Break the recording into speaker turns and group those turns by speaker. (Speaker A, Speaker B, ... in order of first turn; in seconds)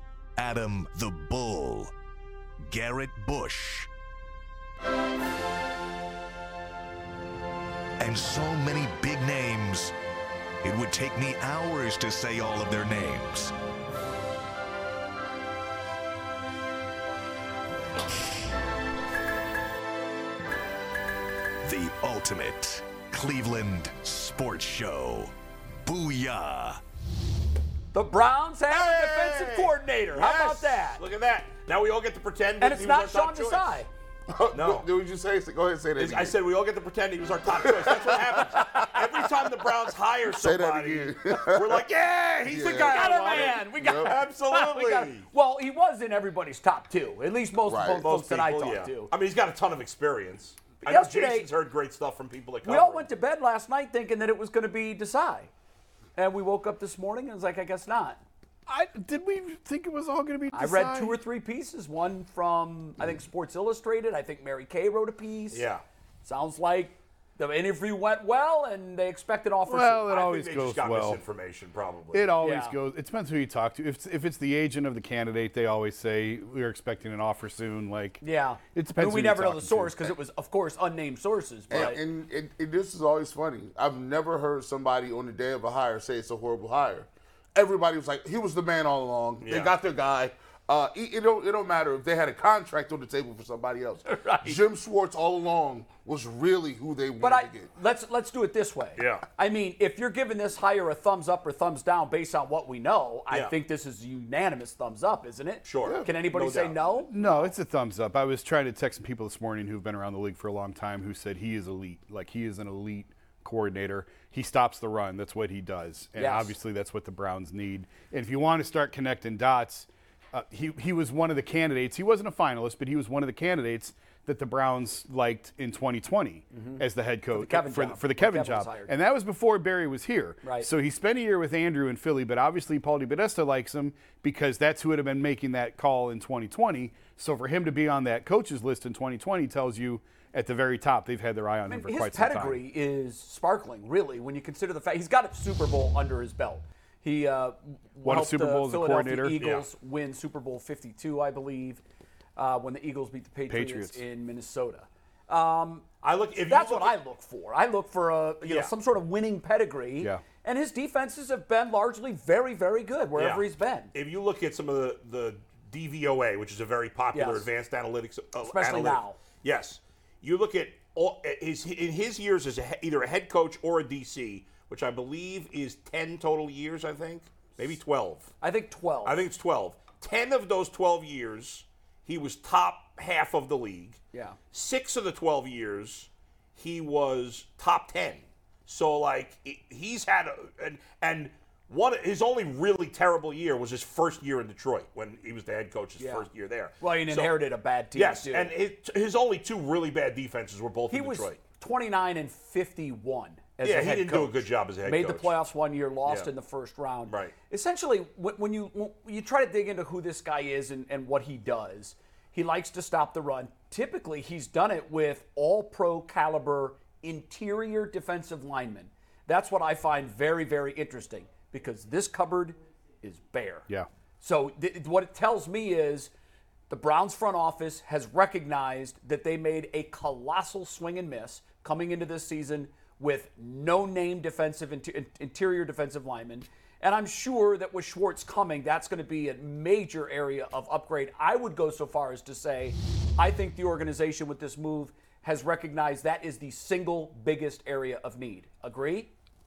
Speaker A: 0.4-1.9, 2.6-3.9, 8.0-9.9, 10.6-13.5, 21.6-25.3, 25.8-26.8
Speaker B: 27.9-31.0, 32.6-33.9, 38.5-39.0, 42.8-49.1, 50.8-51.5, 52.6-55.5, 56.1-58.2, 60.5-65.7, 66.2-70.1, 72.4-72.7, 78.2-82.0, 94.1-94.6, 97.2-107.5, 116.2-116.6, 126.5-128.9, 130.4-130.7, 141.7-151.8, 152.3-155.9, 156.4-163.9, 167.1-167.5, 168.4-169.2, 178.4-179.2, 196.0-196.3, 196.8-198.5, 200.9-223.7, 224.2-226.1, 226.7-249.1
Speaker C: 28.7-33.8, 34.5-34.9, 36.0-45.2, 48.0-53.1, 65.5-65.8, 70.1-72.3, 89.4-89.7, 99.0-99.2, 105.6-106.8, 149.4-149.7, 156.0-156.9, 158.4-158.7, 163.2-178.3, 179.0-184.0, 184.5-197.4, 197.9-201.4, 203.6-205.3, 207.1-207.3
Speaker D: 34.3-36.4, 37.5-38.8, 40.2-41.8, 42.4-44.1, 47.6-48.0, 81.7-97.7, 105.8-106.1
Speaker E: 58.7-61.2, 69.7-71.2, 72.1-78.2, 78.7-80.2, 107.1-142.6, 148.0-149.4, 153.5-154.0